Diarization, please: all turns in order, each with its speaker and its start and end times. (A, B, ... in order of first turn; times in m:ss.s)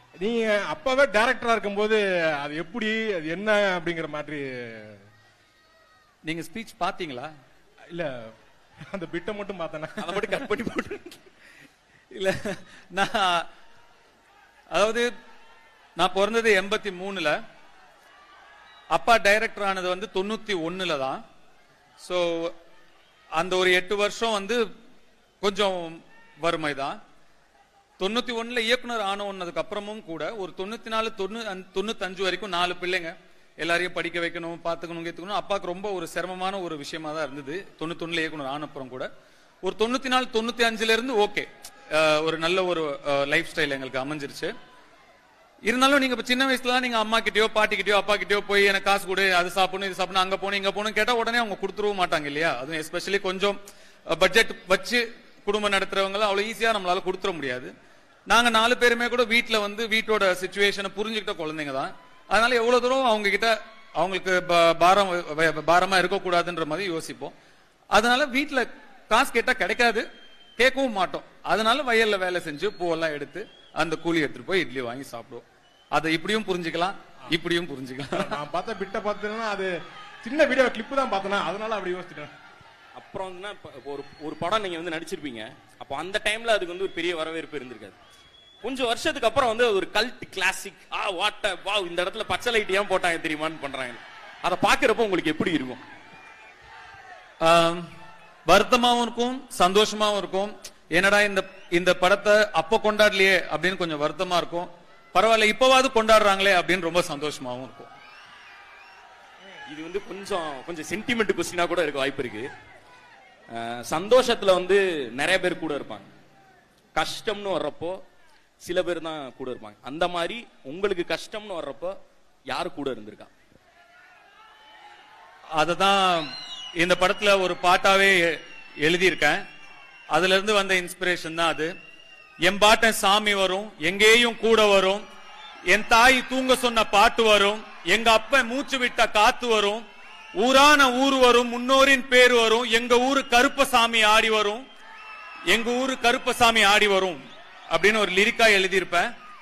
0:00.2-0:05.0 A
0:06.2-0:07.3 B
0:07.9-0:08.3 A
0:08.9-0:10.5 A
0:10.0-0:11.2 C
0:12.1-0:13.4 B
0:14.7-0:15.0 B
0:16.0-0:17.4 B
0:18.9-0:21.2 B
0:22.0-0:22.5 B
0:23.4-0:24.6 B
0:25.4-0:27.0 B
0:28.0-0:39.1 B
0:39.6-0:44.5 B
0:45.6-0:53.6 B
0:54.1-0:57.7 B
0:58.3-1:07.3 B
1:07.9-1:10.0 B
1:10.6-1:18.4 B
1:18.1-1:22.3 A
1:23.0-1:28.0 C
1:28.6-1:35.8 C
1:37.4-1:37.8 B
1:38.5-1:47.9 B
1:49.7-1:52.5 C
1:53.5-1:56.1 C
1:56.9-1:58.0 C
1:58.6-2:01.9 C
2:02.5-2:03.3 C
2:05.6-2:09.4 B
2:10.1-2:11.7 B
2:12.4-2:15.0 B
2:15.7-2:19.8 B
2:20.4-2:24.6 B
2:25.5-2:29.0 B